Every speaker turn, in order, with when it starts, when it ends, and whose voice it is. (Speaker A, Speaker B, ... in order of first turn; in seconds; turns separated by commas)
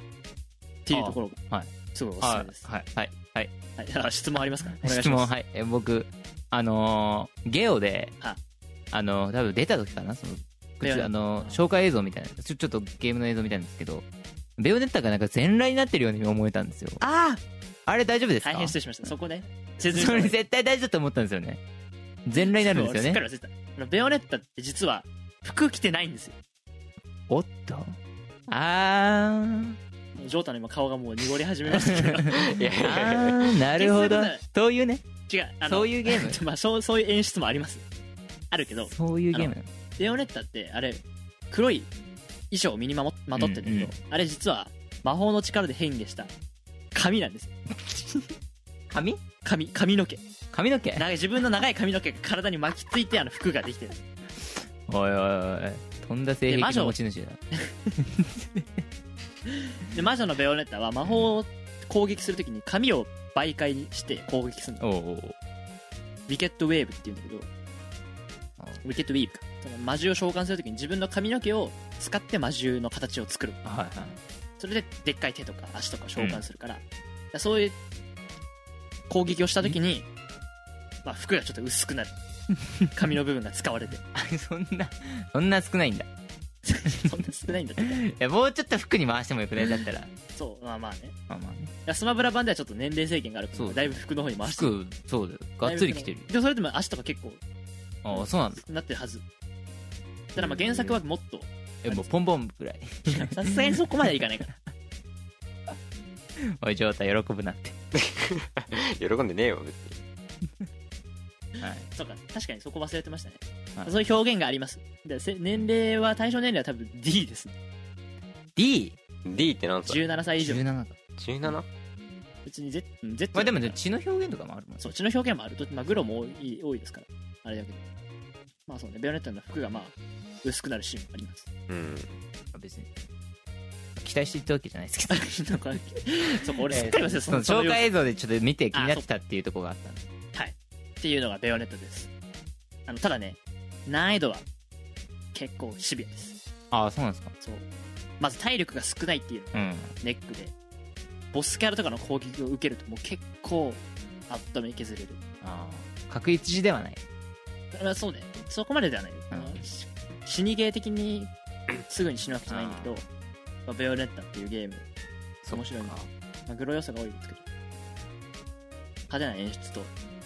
Speaker A: 0.8-1.4, Speaker B: 0.9-3.5, Speaker A: 1.9-2.6, Speaker A: 3.8-5.3, Speaker B: 4.8-8.1, Speaker B: 8.9-14.1, Speaker A: 10.8-11.6, Speaker B: 14.6-17.0, Speaker A: 17.0-17.4, Speaker B: 17.9-18.8, Speaker A: 18.4-20.4, Speaker B: 19.9-21.6, Speaker B: 22.2-23.2, Speaker A: 22.4-26.4, Speaker B: 27.3-28.0, Speaker B: 28.5-29.8, Speaker A: 30.2-32.5, Speaker B: 31.7-35.0, Speaker C: 32.3-33.6, Speaker A: 33.8-34.4, Speaker A: 35.3-37.8, Speaker B: 35.6-36.4, Speaker A: 38.5-41.9, Speaker B: 38.9-39.7, Speaker A: 42.5-46.3, Speaker B: 43.4-43.9, Speaker A: 46.9-47.5, Speaker B: 47.8-48.3, Speaker B: 48.9-49.2, Speaker A: 49.4-50.2, Speaker B: 50.5-51.0, Speaker A: 50.9-54.0, Speaker B: 54.5-57.4, Speaker A: 56.5-57.0, Speaker B: 58.0-58.8, Speaker A: 59.7-64.8, Speaker B: 64.8-65.4, Speaker A: 66.3-67.5, Speaker A: 68.8-73.6, Speaker B: 73.6-74.2, Speaker A: 74.6-77.8, Speaker B: 76.2-76.4, Speaker A: 79.1-80.1, Speaker A: 81.0-82.2, Speaker A: 82.9-84.0, Speaker B: 84.1-86.1, Speaker A: 86.7-88.0, Speaker B: 88.0-90.1, Speaker A: 90.3-91.1, Speaker B: 91.3-91.7, Speaker A: 91.8-94.7, Speaker B: 93.5-96.3, Speaker A: 95.6-97.4, Speaker B: 98.0-98.6, Speaker A: 98.1-99.2, Speaker A: 100.3-102.1, Speaker B: 100.4-100.9, Speaker B: 101.8-103.8, Speaker A: 103.1-104.5, Speaker B: 106.4-107.8, Speaker C: 108.0-110.0, Speaker B: 111.6-111.9, Speaker A: 111.9-117.6, Speaker B: 118.5-119.0, Speaker C: 119.2-120.0, Speaker A: 119.9-120.6, Speaker B: 120.4-121.5, Speaker C: 121.2-121.7, Speaker A: 122.5-123.8, Speaker B: 123.3-124.9, Speaker A: 124.8-127.9, Speaker A: 128.7-131.5, Speaker C: 131.7-132.2, Speaker B: 132.5-132.9, Speaker B: 133.9-135.3, Speaker A: 135.1-137.9, Speaker B: 136.7-140.1, Speaker A: 138.7-139.0, Speaker A: 140.3-142.1, Speaker A: 142.9-144.4, Speaker A: 145.3-146.4, Speaker B: 146.7-147.3, Speaker A: 148.2-150.5, Speaker B: 149.5-149.9, Speaker A: 151.3-155.2, Speaker B: 155.4-157.0, Speaker A: 157.7-161.3, Speaker B: 159.3-159.6, Speaker A: 161.8-163.0, Speaker B: 162.5-163.0, Speaker A: 163.7-164.8, Speaker B: 165.4-166.1, Speaker A: 165.5-165.9, Speaker A: 166.5-167.4, Speaker A: 169.1-169.9